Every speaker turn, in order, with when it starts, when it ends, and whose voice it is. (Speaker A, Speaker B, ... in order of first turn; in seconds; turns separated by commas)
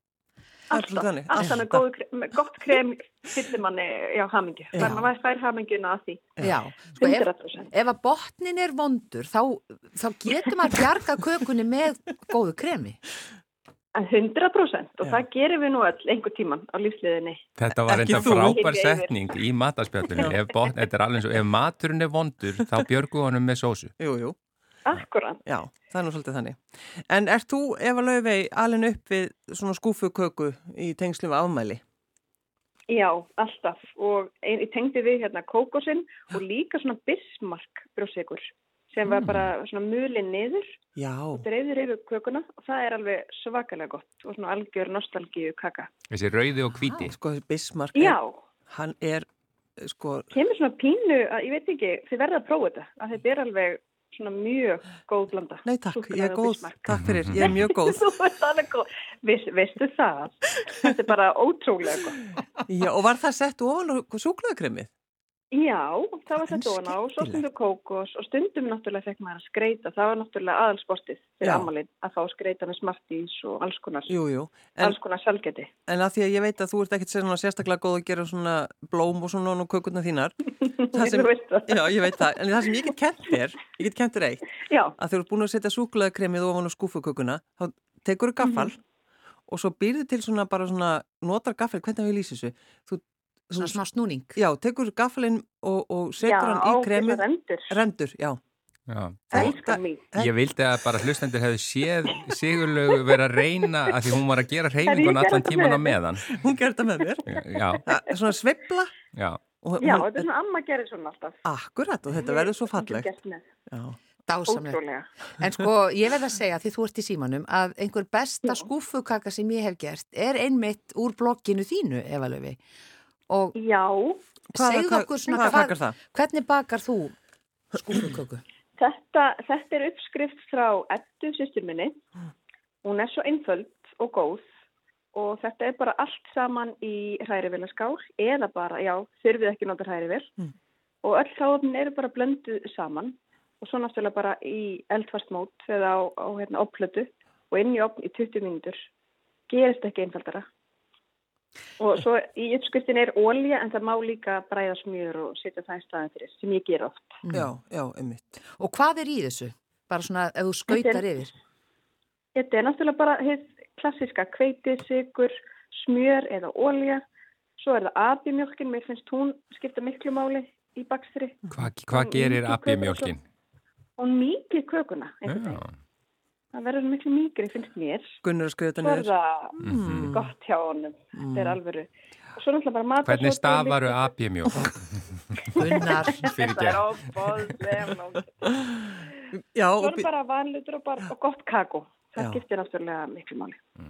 Speaker A: 0.7-6.2, Speaker B: 0.7-1.8, Speaker B: 4.7-5.0, Speaker C: 4.8-5.1, Speaker C: 6.4-13.0, Speaker A: 7.0-7.7, Speaker A: 14.0-17.4, Speaker D: 17.6-23.9, Speaker B: 17.8-18.6, Speaker A: 18.0-19.2, Speaker B: 24.0-24.4, Speaker A: 24.9-25.4, Speaker B: 25.5-31.8, Speaker A: 32.9-40.7, Speaker D: 39.1-39.5, Speaker B: 41.0-41.5, Speaker A: 41.3-45.9, Speaker D: 46.1-47.2, Speaker B: 47.0-48.2, Speaker A: 47.9-48.4, Speaker B: 48.7-49.3, Speaker B: 49.8-50.3, Speaker A: 50.3-62.2, Speaker B: 55.7-58.0, Speaker D: 56.9-57.6, Speaker B: 62.7-64.9, Speaker A: 65.5-74.1, Speaker B: 66.4-67.4, Speaker B: 71.4-71.7, Speaker B: 74.1-75.0, Speaker A: 74.8-75.7, Speaker B: 75.9-80.3, Speaker A: 80.6-82.3, Speaker B: 80.9-88.8, Speaker A: 84.6-84.9, Speaker A: 88.4-88.7, Speaker B: 89.5-93.8, Speaker C: 93.6-94.4, Speaker B: 94.4-98.4, Speaker A: 96.2-97.7, Speaker D: 98.9-99.6, Speaker B: 99.3-101.0, Speaker A: 99.3-100.0, Speaker D: 100.2-106.4, Speaker A: 104.8-106.0, Speaker B: 106.2-109.0, Speaker D: 107.3-107.9, Speaker D: 109.1-109.4, Speaker B: 109.6-110.3, Speaker A: 109.8-111.4, Speaker B: 111.5-113.1, Speaker A: 112.1-113.5, Speaker B: 113.7-114.0, Speaker C: 114.3-114.8, Speaker A: 114.5-115.1, Speaker C: 115.4-122.6, Speaker C: 123.3-123.6, Speaker A: 123.5-124.2, Speaker B: 124.5-126.0, Speaker C: 124.5-127.1, Speaker C: 127.7-128.4, Speaker A: 128.8-132.0, Speaker A: 132.8-134.4, Speaker A: 135.1-140.3, Speaker A: 141.0-148.8, Speaker A: 149.5-150.4, Speaker A: 151.8-157.2, Speaker C: 157.2-157.5, Speaker B: 157.3-158.4, Speaker C: 158.6-161.3, Speaker A: 160.7-161.1, Speaker A: 162.3-167.0, Speaker A: 167.6-171.4, Speaker D: 171.5-173.2, Speaker A: 171.9-173.1, Speaker A: 174.0-175.6, Speaker D: 175.3-175.7, Speaker A: 176.5-178.2, Speaker B: 178.2-180.3, Speaker A: 178.8-184.1, Speaker D: 179.6-180.2, Speaker B: 181.2-181.6, Speaker D: 183.1-186.9, Speaker C: 185.6-186.3, Speaker A: 185.7-188.5, Speaker B: 188.5-190.1, Speaker A: 189.8-193.6